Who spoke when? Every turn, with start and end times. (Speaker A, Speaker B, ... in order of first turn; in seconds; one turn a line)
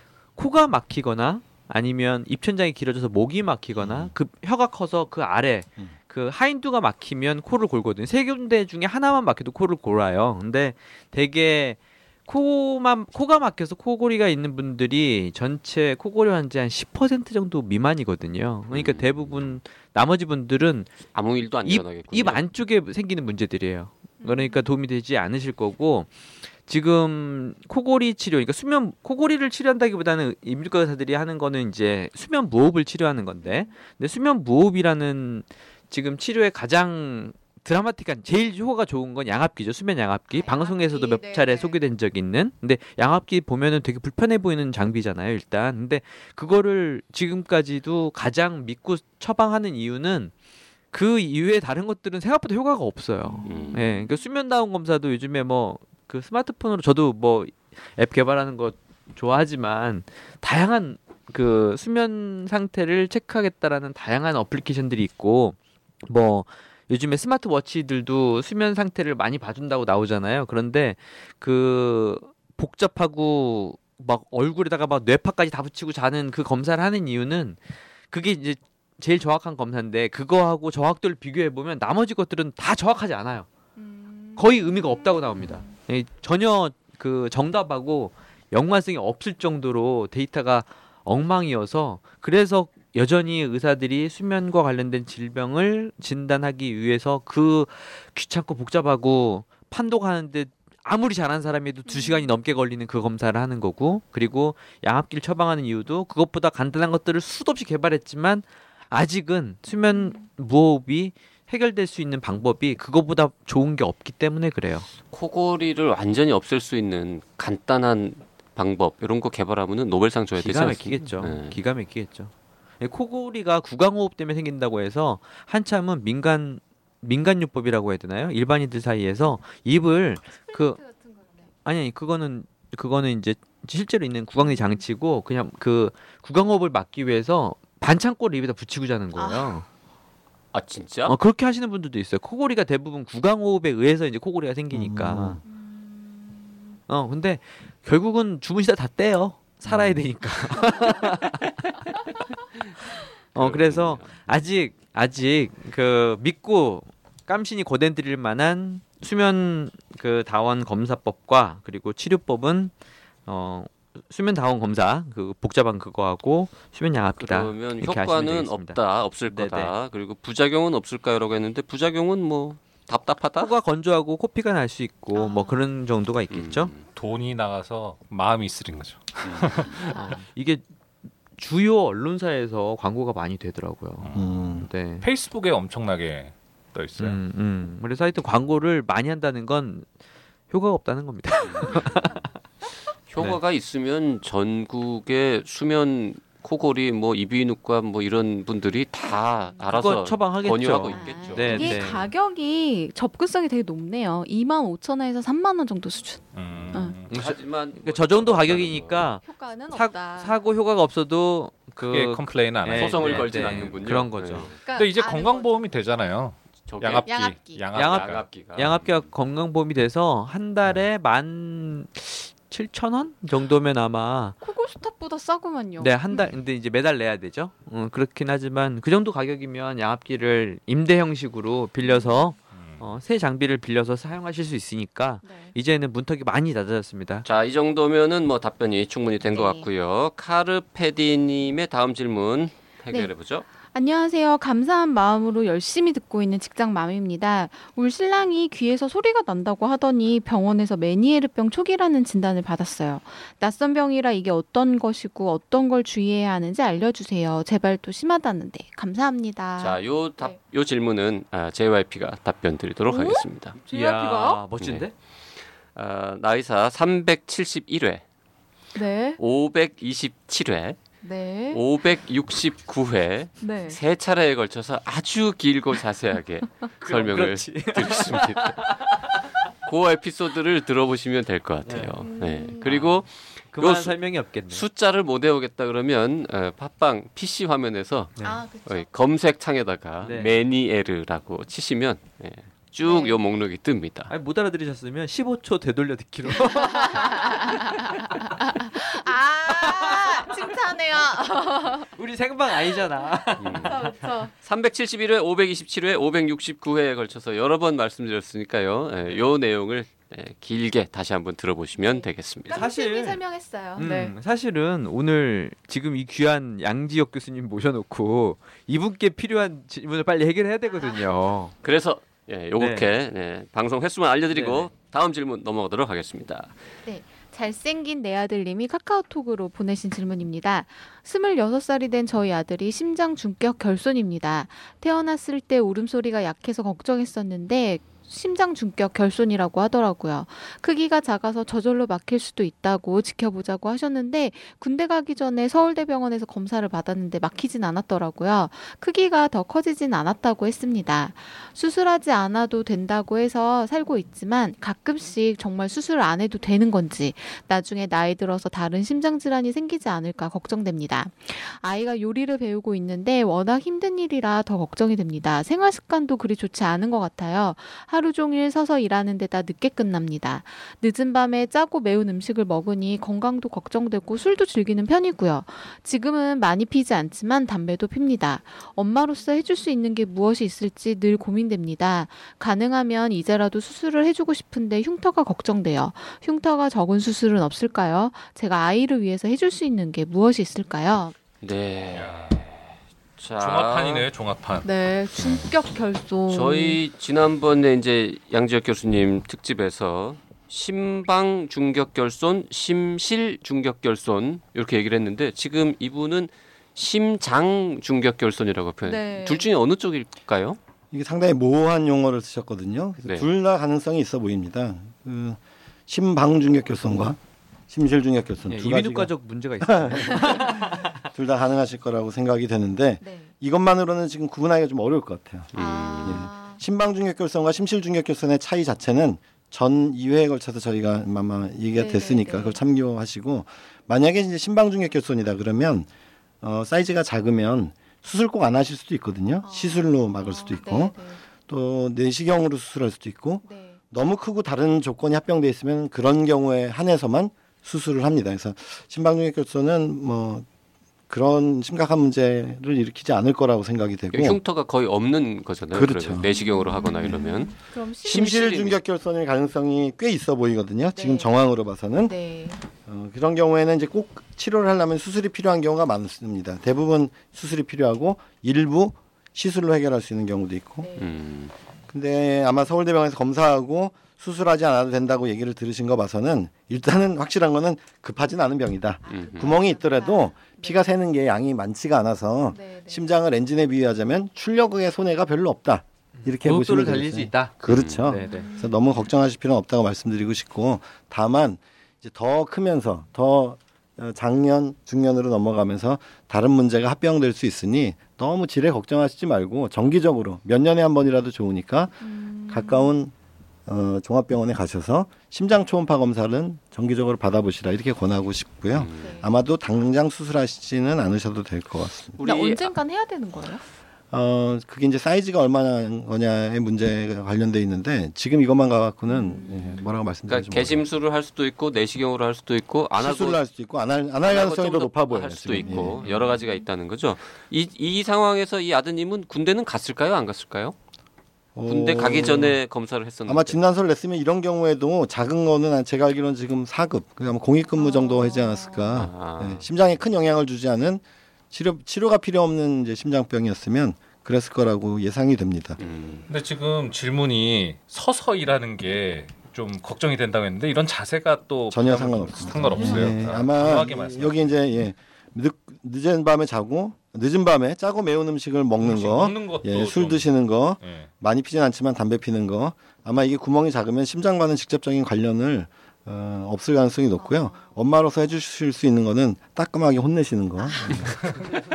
Speaker A: 0.3-20.9
Speaker B: 3.8-4.1
Speaker C: 18.7-19.2
Speaker C: 21.1-22.4
Speaker A: 21.6-26.1
Speaker D: 24.2-24.7
Speaker A: 26.7-50.3
Speaker D: 33.4-33.7
Speaker D: 40.3-41.8
Speaker A: 50.9-77.6
Speaker D: 53.2-54.1
Speaker C: 53.4-53.8
Speaker A: 78.1-83.5
Speaker D: 83.8-85.7
Speaker A: 84.3-114.9
Speaker D: 101.9-102.3
Speaker D: 109.9-110.2
Speaker C: 115.1-121.6
Speaker A: 120.3-130.8
Speaker D: 130.5-131.5
Speaker A: 131.6-139.6
Speaker D: 139.2-139.5
Speaker C: 140.5-141.2
Speaker A: 141.1-145.4
Speaker B: 144.7-145.4
Speaker A: 146.9-152.0
Speaker A: 153.3-162.7
Speaker C: 153.3-154.1
Speaker A: 163.2-169.7
Speaker C: 167.2-173.5
Speaker A: 173.4-176.7
Speaker D: 175.1-175.6
Speaker C: 176.3-176.8
Speaker E: 176.9-180.0
Speaker C: 179.2-179.7
Speaker A: 179.8-180.6
Speaker A: 181.3-185.1
Speaker E: 184.0-184.5
Speaker B: 184.1-184.7
Speaker E: 185.0-187.2
Speaker A: 187.0-189.9
Speaker A: 190.5-192.2
Speaker C: 191.5-191.8
Speaker C: 193.1-202.0
Speaker A: 199.7-202.1
Speaker D: 200.8-206.9
Speaker E: 206.3-207.1
Speaker A: 207.1-214.5
Speaker C: 207.1-209.1
Speaker D: 209.2-210.4
Speaker E: 211.8-213.8
Speaker C: 212.7-214.6
Speaker D: 214.6-215.6
Speaker E: 214.7-218.2
Speaker C: 216.7-217.1
Speaker D: 217.1-217.6
Speaker A: 217.7-224.4
Speaker C: 217.7-219.1
Speaker D: 224.4-226.3
Speaker A: 225.8-237.2
Speaker D: 231.8-232.3
Speaker E: 232.5-232.8
Speaker D: 235.2-235.5
Speaker C: 237.2-243.4
Speaker D: 239.2-239.7
Speaker D: 243.7-260.3
Speaker C: 259.6-263.6
Speaker D: 262.9-264.4
Speaker A: 263.7-264.9
Speaker C: 265.7-268.0
Speaker D: 268.7-269.2
Speaker C: 269.2-270.8
Speaker D: 271.0-271.6
Speaker C: 271.5-278.6
Speaker D: 273.4-273.8
Speaker A: 276.8-279.2
Speaker C: 279.6-284.0
Speaker A: 281.6-282.0
Speaker D: 282.0-282.7
Speaker A: 282.6-284.6
Speaker C: 284.5-294.1
Speaker A: 288.1-288.4
Speaker D: 288.2-288.9
Speaker A: 290.0-290.4
Speaker D: 292.8-293.2
Speaker A: 294.1-298.3
Speaker D: 296.3-301.9
Speaker A: 299.5-300.3
Speaker A: 301.9-304.0
Speaker C: 303.4-312.6
Speaker D: 303.6-304.3
Speaker D: 311.8-314.1
Speaker A: 312.5-313.2
Speaker A: 313.8-321.5
Speaker D: 320.7-321.0
Speaker C: 321.6-326.5
Speaker A: 322.6-322.9
Speaker A: 324.3-324.7
Speaker D: 326.9-391.1
Speaker C: 391.4-394.1
Speaker E: 391.9-392.4
Speaker E: 393.4-395.5
Speaker D: 394.6-396.8
Speaker C: 396.3-410.6
Speaker D: 408.8-409.5
Speaker B: 410.9-417.2
Speaker B: 417.7-435.9
Speaker A: 418.5-420.9
Speaker D: 423.0-423.3
Speaker C: 425.5-426.3
Speaker D: 425.6-426.6
Speaker D: 431.8-432.6
Speaker B: 436.4-440.9
Speaker D: 439.4-441.2
Speaker B: 441.5-450.4
Speaker D: 443.4-443.8
Speaker B: 451.1-454.4
Speaker C: 454.1-458.8
Speaker B: 455.7-456.3
Speaker D: 456.3-458.6
Speaker B: 457.0-457.3
Speaker B: 458.0-462.1
Speaker D: 460.9-461.3
Speaker D: 462.0-462.6
Speaker B: 462.9-470.9
Speaker D: 470.8-471.1
Speaker C: 471.0-471.5
Speaker B: 471.9-503.1
Speaker D: 479.1-480.8
Speaker C: 479.1-479.6
Speaker D: 482.5-483.0
Speaker A: 486.2-488.5
Speaker C: 487.7-488.1
Speaker D: 488.1-489.1
Speaker D: 502.0-502.9
Speaker B: 503.7-512.2
Speaker C: 508.7-509.2
Speaker D: 509.0-509.3
Speaker C: 512.2-512.7
Speaker D: 512.2-513.6
Speaker B: 514.1-520.8
Speaker D: 519.1-519.8
Speaker C: 520.3-523.4
Speaker B: 523.0-526.0
Speaker C: 524.2-530.7
Speaker D: 525.5-526.6
Speaker B: 531.5-532.6
Speaker C: 531.7-533.6
Speaker B: 533.2-545.8
Speaker D: 537.8-538.9
Speaker C: 538.9-539.7
Speaker C: 545.8-546.2
Speaker E: 546.3-554.5
Speaker B: 551.7-571.5
Speaker D: 552.5-553.1
Speaker E: 558.8-560.2
Speaker E: 560.8-561.1
Speaker D: 567.2-567.8
Speaker D: 570.6-570.9